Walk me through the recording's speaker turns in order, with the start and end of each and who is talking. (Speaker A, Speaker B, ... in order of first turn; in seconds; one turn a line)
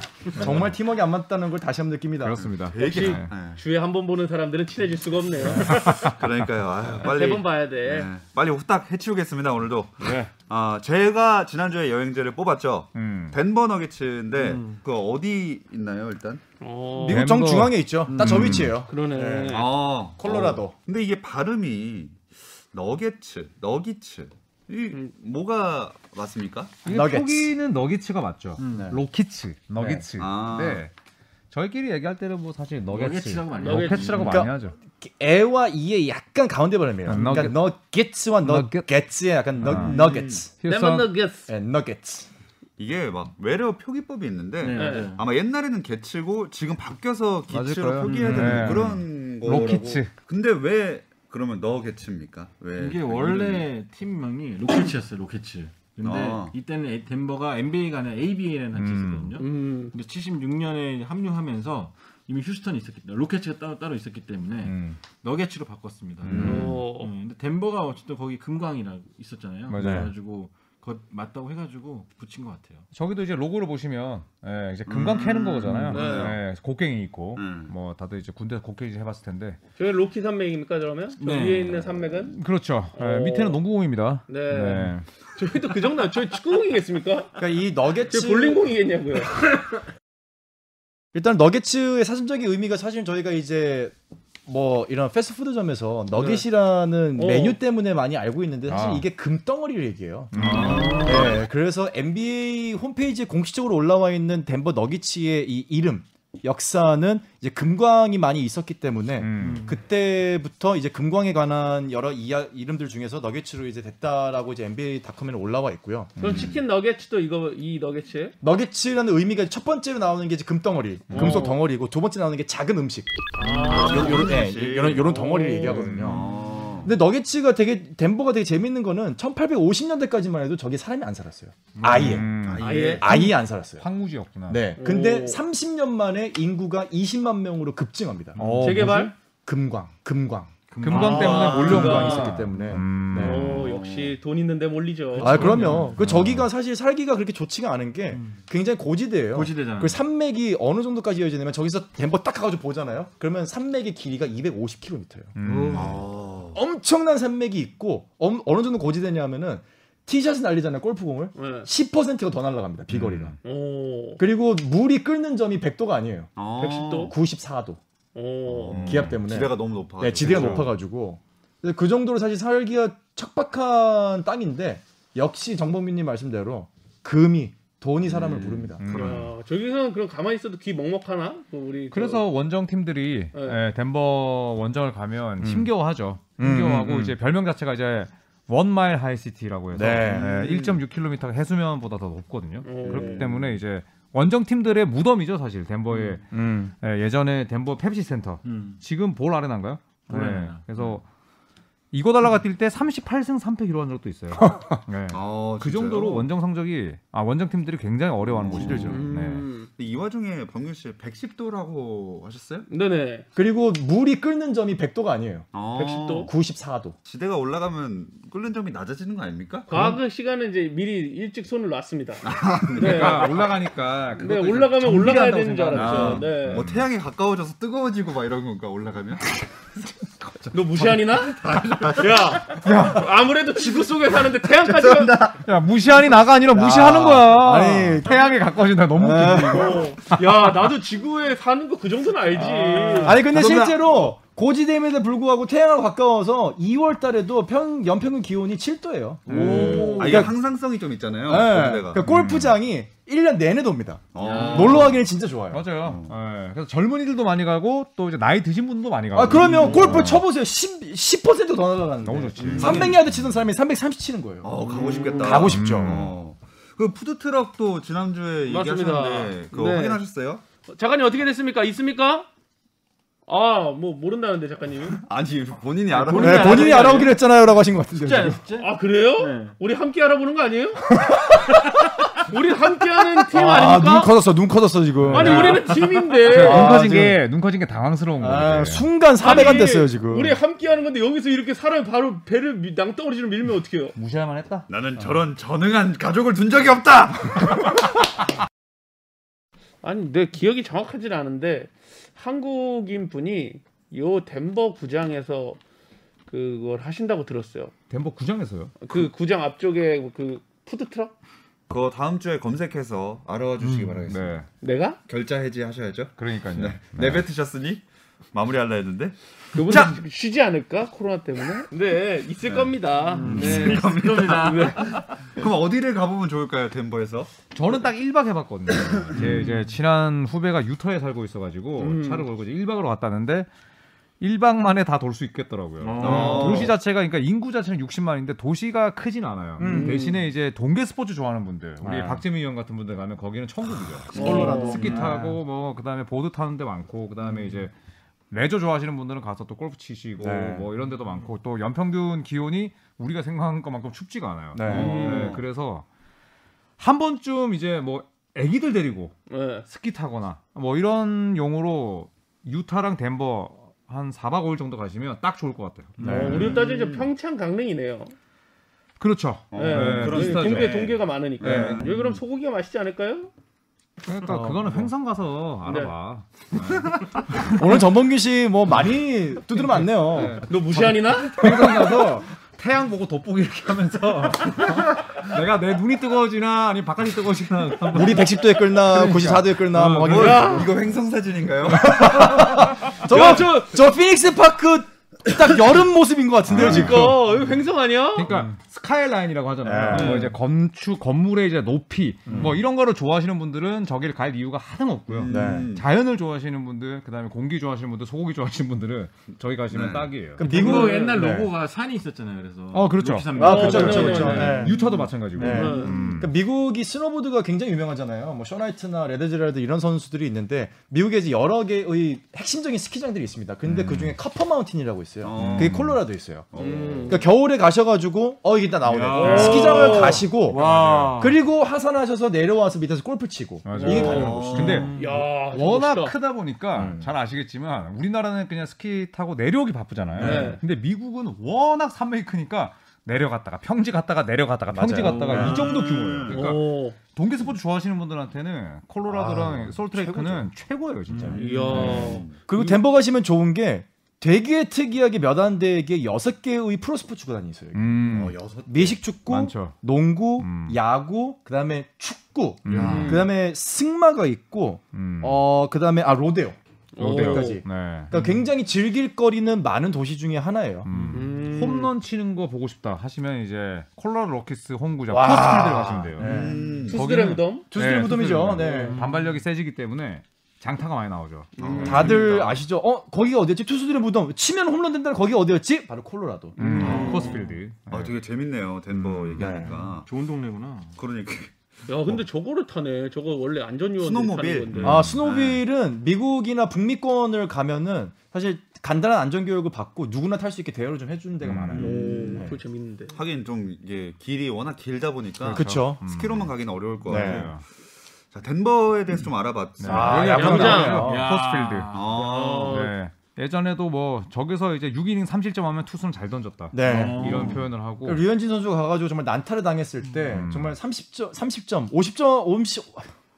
Speaker A: 0.3-2.5
Speaker B: 2.2-3.3
Speaker C: 2.5-3.6
Speaker D: 2.7-6.1
Speaker C: 5.4-16.4
Speaker B: 5.7-6.0
Speaker D: 7.0-8.1
Speaker B: 12.9-13.4
Speaker E: 14.3-14.8
Speaker D: 16.6-17.3
Speaker A: 16.9-20.7
Speaker B: 17.1-18.7
Speaker E: 18.1-18.7
Speaker D: 18.8-19.7
Speaker C: 19.5-26.8
Speaker B: 26.8-30.9
Speaker A: 26.9-27.5
Speaker E: 28.6-28.9
Speaker A: 29.8-30.1
Speaker C: 30.1-30.8
Speaker B: 31.5-34.7
Speaker E: 32.9-34.5
Speaker D: 33.6-34.1
Speaker A: 34.1-40.5
Speaker B: 37.0-37.6
Speaker E: 37.1-37.5
Speaker B: 38.4-38.9
Speaker B: 39.6-40.0
Speaker C: 39.6-40.4
Speaker B: 40.6-41.1
Speaker D: 40.6-41.5
Speaker A: 41.5-42.3
Speaker C: 42.8-53.6
Speaker E: 44.6-45.3
Speaker D: 44.7-45.1
Speaker B: 47.5-50.1
Speaker E: 48.0-48.8
Speaker A: 48.2-48.8
Speaker E: 52.8-72.8
Speaker C: 56.0-56.5
Speaker B: 58.7-59.4
Speaker D: 59.4-59.9
Speaker B: 64.6-65.0
Speaker C: 66.2-66.8
Speaker B: 66.3-66.7
Speaker D: 66.4-67.1
Speaker B: 69.7-70.1
Speaker A: 69.8-70.1
Speaker B: 72.9-79.6
Speaker C: 74.8-76.4
Speaker E: 75.6-76.1
Speaker D: 75.9-76.4
Speaker C: 77.3-77.7
Speaker D: 79.8-82.4
Speaker E: 81.2-81.9
Speaker B: 82.2-85.0
Speaker D: 82.9-83.6
Speaker D: 84.3-87.4
Speaker A: 87.4-88.7
Speaker D: 88.1-89.6
Speaker A: 91.1-93.9
Speaker A: 94.5-100.3
Speaker D: 96.1-96.5
Speaker D: 97.2-97.6
Speaker B: 98.7-99.0
Speaker B: 100.3-101.2
Speaker C: 100.4-101.3
Speaker E: 100.4-101.3
Speaker A: 101.0-116.2
Speaker B: 109.2-109.7
Speaker E: 109.4-109.8
Speaker D: 116.2-118.3
Speaker C: 116.2-116.6
Speaker A: 118.4-126.2
Speaker D: 121.1-121.6
Speaker D: 123.3-125.9
Speaker C: 123.4-125.2
Speaker B: 125.8-126.2
Speaker C: 125.9-126.9
Speaker A: 126.8-132.3
Speaker E: 131.8-132.2
Speaker B: 131.9-134.7
Speaker C: 132.2-133.2
Speaker D: 132.6-133.1
Speaker A: 132.9-133.8
Speaker A: 134.5-138.5
Speaker D: 134.8-135.4
Speaker E: 138.3-138.9
Speaker B: 138.4-139.1
Speaker D: 138.6-139.1
Speaker A: 139.4-143.6
Speaker E: 140.7-141.8
Speaker B: 140.8-143.6
Speaker D: 140.9-142.4
Speaker D: 143.1-145.7
Speaker C: 143.2-144.2
Speaker E: 145.2-146.0
Speaker A: 145.2-155.3
Speaker B: 145.4-146.5
Speaker E: 148.1-148.4
Speaker E: 149.3-150.0
Speaker B: 155.3-156.0
Speaker E: 155.4-156.0
Speaker C: 155.7-156.6
Speaker A: 156.5-163.3
Speaker D: 161.3-161.7
Speaker C: 162.9-163.3
Speaker D: 163.4-164.2
Speaker A: 164.2-166.3
Speaker C: 166.4-167.1
Speaker D: 166.6-167.1
Speaker A: 167.0-167.8
Speaker D: 168.1-169.1
Speaker C: 168.4-170.7
Speaker A: 168.7-179.1
Speaker B: 170.2-170.7
Speaker C: 178.0-179.1
Speaker B: 178.8-179.3
Speaker D: 178.9-182.2
Speaker B: 181.9-201.0
Speaker D: 183.3-183.6
Speaker A: 185.4-185.7
Speaker A: 186.4-187.2
Speaker A: 189.7-190.6
Speaker C: 190.1-190.4
Speaker D: 192.6-193.3
Speaker C: 192.8-193.5
Speaker E: 195.9-196.2
Speaker A: 196.3-196.7
Speaker E: 198.4-198.8
Speaker E: 200.1-201.0
Speaker B: 201.9-209.5
Speaker A: 204.4-204.8
Speaker C: 205.1-206.3
Speaker C: 208.2-209.1
Speaker A: 208.5-209.0
Speaker D: 208.8-209.7
Speaker C: 209.7-212.7
Speaker D: 212.7-213.2
Speaker A: 213.3-215.5
Speaker C: 215.5-216.3
Speaker D: 215.7-216.3
Speaker A: 216.2-216.9
Speaker C: 217.0-219.8
Speaker D: 219.7-223.4
Speaker C: 222.2-223.5
Speaker B: 222.8-226.9
Speaker D: 224.2-226.7
Speaker C: 225.7-229.2
Speaker D: 230.5-235.3
Speaker C: 231.1-232.7
Speaker B: 232.5-233.1
Speaker C: 234.4-235.4
Speaker B: 235.4-240.7
Speaker A: 236.5-238.2
Speaker A: 238.9-239.9
Speaker D: 239.4-243.3
Speaker A: 242.4-250.3
Speaker C: 243.0-244.1
Speaker E: 249.2-250.1
Speaker B: 249.3-249.9
Speaker D: 249.3-250.2
Speaker C: 249.5-252.1
Speaker A: 251.2-255.7
Speaker B: 252.0-252.6
Speaker C: 254.1-255.0
Speaker E: 254.2-254.9
Speaker B: 255.5-260.2
Speaker C: 255.8-256.1
Speaker A: 259.1-264.5
Speaker E: 259.4-260.1
Speaker C: 259.7-260.1
Speaker B: 262.0-263.0
Speaker C: 262.4-263.0
Speaker C: 264.4-270.4
Speaker E: 264.7-265.2
Speaker D: 264.7-265.3
Speaker A: 265.1-266.0
Speaker B: 265.5-266.2
Speaker D: 268.4-270.0
Speaker D: 270.7-272.3
Speaker D: 273.3-275.0
Speaker C: 275.0-277.0
Speaker E: 275.9-277.1
Speaker D: 276.0-277.2
Speaker A: 276.1-278.4
Speaker E: 278.0-279.5
Speaker D: 278.3-280.9
Speaker A: 281.0-281.6
Speaker D: 281.6-284.1
Speaker A: 283.3-287.2
Speaker D: 285.1-286.8
Speaker E: 285.1-285.5
Speaker B: 285.2-285.5
Speaker B: 286.2-288.9
Speaker A: 288.2-290.4
Speaker D: 289.2-293.9
Speaker B: 293.9-294.7
Speaker C: 294.7-297.6
Speaker D: 299.8-305.6
Speaker D: 306.3-307.7
Speaker B: 307.9-308.7
Speaker D: 308.8-311.1
Speaker C: 311.7-314.4
Speaker E: 313.6-313.9
Speaker B: 314.1-314.5
Speaker D: 314.6-315.0
Speaker C: 315.1-319.1
Speaker B: 316.2-317.3
Speaker D: 319.5-325.0
Speaker C: 322.4-327.4
Speaker E: 323.1-325.0
Speaker A: 323.3-323.8
Speaker B: 323.3-323.7
Speaker B: 327.5-333.5
Speaker C: 328.8-329.4
Speaker E: 329.1-329.7
Speaker D: 331.8-332.3
Speaker B: 334.2-347.7
Speaker E: 335.8-336.7
Speaker C: 336.0-336.7
Speaker A: 339.6-340.0
Speaker D: 339.6-340.2
Speaker A: 341.8-342.2
Speaker A: 344.1-345.4
Speaker D: 344.1-344.9
Speaker E: 344.7-345.1
Speaker B: 348.3-355.9
Speaker A: 350.2-350.7
Speaker A: 354.5-355.3
Speaker C: 354.7-355.4
Speaker D: 354.7-355.3
Speaker B: 356.8-366.5
Speaker D: 359.3-359.7
Speaker A: 366.0-366.6
Speaker D: 366.0-368.1
Speaker C: 366.2-367.1
Speaker B: 369.0-370.9
Speaker C: 369.5-372.1
Speaker D: 369.5-373.3
Speaker B: 371.4-371.8
Speaker A: 371.4-371.8
Speaker B: 374.0-377.8
Speaker A: 374.2-374.9
Speaker D: 375.6-375.9
Speaker A: 377.5-382.1
Speaker B: 380.0-390.6
Speaker D: 380.4-381.4
Speaker A: 387.9-390.7
Speaker C: 390.0-392.5
Speaker D: 390.1-390.7
Speaker A: 391.6-397.2
Speaker D: 393.0-393.8
Speaker C: 393.1-393.5
Speaker B: 396.5-397.3
Speaker D: 396.5-398.3
Speaker B: 398.1-410.6
Speaker A: 399.6-400.3
Speaker E: 399.9-400.3
Speaker D: 399.9-400.2
Speaker A: 402.3-402.6
Speaker C: 405.1-405.9
Speaker A: 405.2-405.7
Speaker C: 409.7-410.1
Speaker A: 410.4-411.5
Speaker E: 410.4-415.7
Speaker D: 410.4-411.2
Speaker B: 412.7-416.3
Speaker A: 413.3-414.8
Speaker D: 413.4-414.7
Speaker A: 415.3-426.5
Speaker D: 415.4-416.0
Speaker B: 423.7-424.1
Speaker C: 425.2-425.9
Speaker B: 425.4-426.0
Speaker C: 426.5-427.2
Speaker D: 426.6-427.2
Speaker A: 427.1-430.6
Speaker E: 428.9-431.4
Speaker B: 429.0-431.2
Speaker D: 429.1-430.2
Speaker A: 431.2-435.0
Speaker B: 433.6-452.0
Speaker D: 433.7-436.1
Speaker C: 433.8-434.9
Speaker E: 434.5-435.2
Speaker A: 436.7-437.1
Speaker A: 440.1-440.6
Speaker D: 440.2-440.6
Speaker A: 444.7-445.6
Speaker E: 444.9-445.7
Speaker C: 445.3-446.4
Speaker D: 446.2-447.0
Speaker A: 449.1-450.5
Speaker E: 451.1-452.1
Speaker A: 451.2-470.9
Speaker C: 451.3-452.4
Speaker D: 451.3-452.8
Speaker B: 457.7-458.3
Speaker C: 458.1-459.0
Speaker B: 459.3-459.8
Speaker B: 460.4-460.8
Speaker B: 462.6-463.2
Speaker C: 462.7-463.1
Speaker D: 462.7-463.3
Speaker B: 464.9-465.4
Speaker D: 466.9-467.6
Speaker B: 467.0-468.3
Speaker B: 470.8-476.3
Speaker E: 470.9-471.3
Speaker D: 471.1-471.9
Speaker A: 475.1-476.6
Speaker C: 476.2-477.0
Speaker E: 476.3-476.7
Speaker D: 476.7-477.7
Speaker B: 476.8-482.2
Speaker A: 477.7-479.0
Speaker D: 478.6-479.0
Speaker E: 478.6-479.4
Speaker D: 481.6-482.2
Speaker C: 481.6-482.3
Speaker A: 481.8-487.0
Speaker E: 481.9-482.3
Speaker B: 486.6-488.1
Speaker D: 486.6-487.4
Speaker E: 486.6-487.5
Speaker C: 486.8-490.1
Speaker B: 489.0-489.4
Speaker A: 489.4-489.7
Speaker E: 489.5-491.0
Speaker C: 491.0-491.5
Speaker D: 491.9-495.1
Speaker C: 494.0-495.6
Speaker B: 494.8-495.2
Speaker A: 494.8-502.6
Speaker B: 501.4-502.0
Speaker C: 501.7-502.5
Speaker D: 501.7-503.2
Speaker C: 503.1-507.6
Speaker B: 505.4-506.5
Speaker A: 505.4-506.0
Speaker B: 507.0-507.6
Speaker A: 507.1-507.5
Speaker C: 508.3-510.6
Speaker B: 509.8-512.0
Speaker A: 509.8-511.3
Speaker E: 510.0-512.2
Speaker D: 510.2-511.1
Speaker C: 511.9-512.8
Speaker D: 512.1-512.9
Speaker B: 512.6-518.2
Speaker A: 516.7-523.1
Speaker E: 516.8-517.7
Speaker B: 520.2-520.8